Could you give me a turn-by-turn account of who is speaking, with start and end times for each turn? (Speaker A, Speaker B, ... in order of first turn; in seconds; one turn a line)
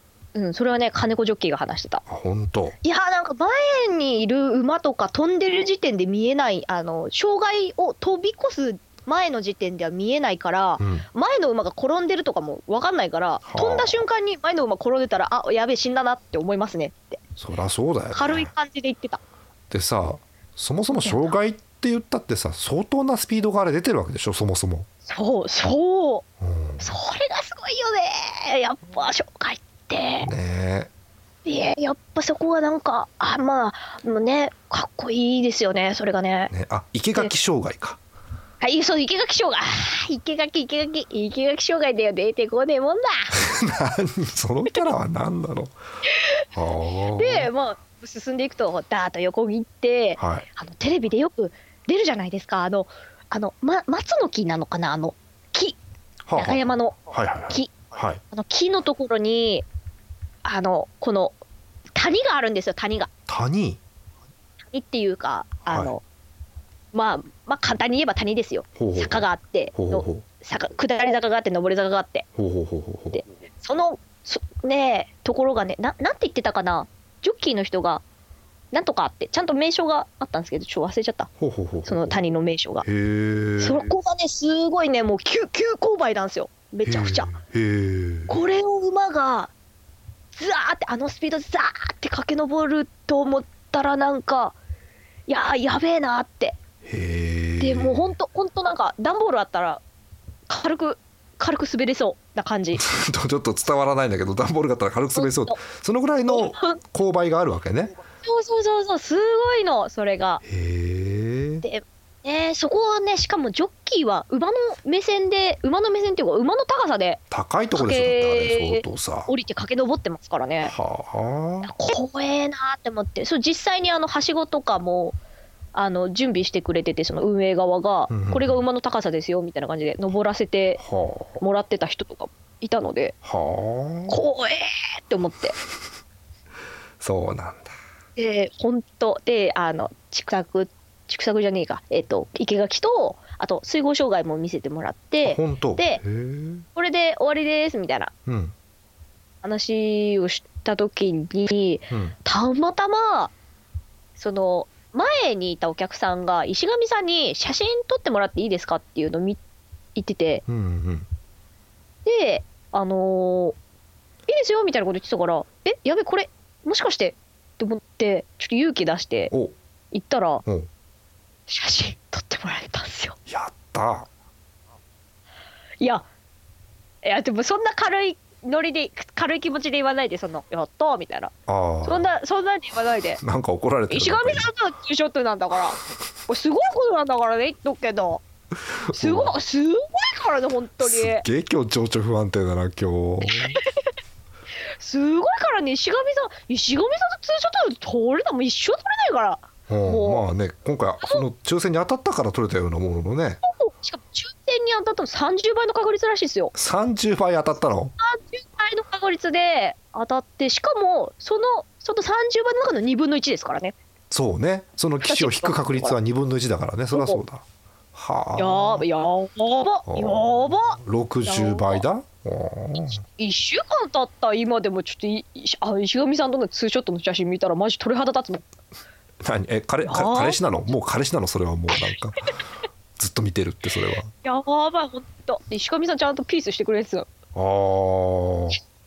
Speaker A: 0.3-2.0
Speaker B: 2.1-2.8
Speaker A: 2.8-17.2
Speaker B: 10.8-11.1
Speaker B: 13.4-14.0
Speaker B: 17.4-18.5
Speaker A: 18.1-19.2
Speaker B: 19.7-24.9
Speaker A: 20.9-21.3
Speaker A: 25.1-26.2
Speaker B: 26.4-26.9
Speaker A: 26.8-30.3
Speaker B: 30.2-30.9
Speaker A: 31.4-36.5
Speaker B: 36.5-38.0
Speaker A: 38.6-43.4
Speaker B: 43.3-45.7
Speaker A: 46.1-46.4
Speaker B: 46.5-47.5
Speaker A: 47.1-55.8
Speaker B: 50.2-50.5
Speaker B: 56.3-58.2
Speaker A: 56.3-57.0
Speaker A: 58.3-59.6
Speaker A: 60.4-61.4
Speaker A: 62.0-63.1
Speaker B: 63.3-63.8
Speaker A: 64.7-66.0
Speaker B: 65.7-65.9
Speaker A: 66.9-72.3
Speaker B: 68.8-70.2
Speaker B: 72.4-73.2
Speaker A: 73.1-78.0
Speaker A: 78.7-81.3
Speaker B: 81.4-82.2
Speaker A: 81.9-82.8
Speaker B: 82.8-83.9
Speaker A: 83.6-87.3
Speaker B: 86.9-88.3
Speaker A: 88.3-89.5
Speaker A: 90.3-94.6
Speaker A: 95.3-96.6
Speaker B: 96.8-98.2
Speaker A: 97.6-99.8
Speaker A: 100.5-102.8
Speaker B: 102.8-107.9
Speaker A: 105.2-105.6
Speaker A: 106.3-106.8
Speaker A: 108.2-110.4
Speaker B: 110.4-111.7
Speaker A: 111.6-117.2
Speaker B: 117.3-119.3
Speaker A: 117.7-120.7
Speaker B: 120.7-121.7
Speaker A: 121.6-125.2
Speaker A: 125.7-130.8
Speaker B: 128.1-128.6
Speaker B: 130.8-131.4
Speaker A: 131.4-133.2
Speaker B: 133.2-134.2
Speaker A: 134.1-135.6
Speaker B: 137.0-137.8
Speaker A: 138.2-146.0
Speaker B: 145.2-146.7
Speaker A: 146.8-148.1
Speaker B: 148.3-148.5
Speaker A: 149.4-153.3
Speaker A: 154.2-159.4
Speaker A: 159.9-160.4
Speaker B: 160.5-161.1
Speaker A: 162.1-163.6
Speaker A: 164.3-169.3
Speaker A: 169.9-170.4
Speaker B: 170.4-170.7
Speaker A: 171.5-173.2
Speaker B: 173.3-174.1
Speaker A: 175.8-176.1
Speaker A: 177.0-181.3
Speaker B: 181.5-182.1
Speaker A: 181.8-183.2
Speaker B: 183.2-184.5
Speaker A: 183.9-188.2
Speaker B: 188.8-189.3
Speaker A: 188.9-191.2
Speaker B: 190.8-193.6
Speaker A: 193.2-193.8
Speaker A: 194.8-200.3
Speaker B: 199.7-203.4
Speaker A: 203.4-206.5
Speaker B: 206.5-207.9
Speaker A: 208.0-213.8
Speaker B: 214.1-218.8
Speaker A: 215.0-216.0
Speaker A: 216.9-217.2
Speaker A: 218.4-221.8
Speaker B: 219.9-223.0
Speaker A: 223.2-228.4
Speaker B: 229.2-232.3
Speaker A: 229.8-230.4
Speaker B: 233.0-234.1
Speaker A: 234.2-237.1
Speaker B: 237.3-238.6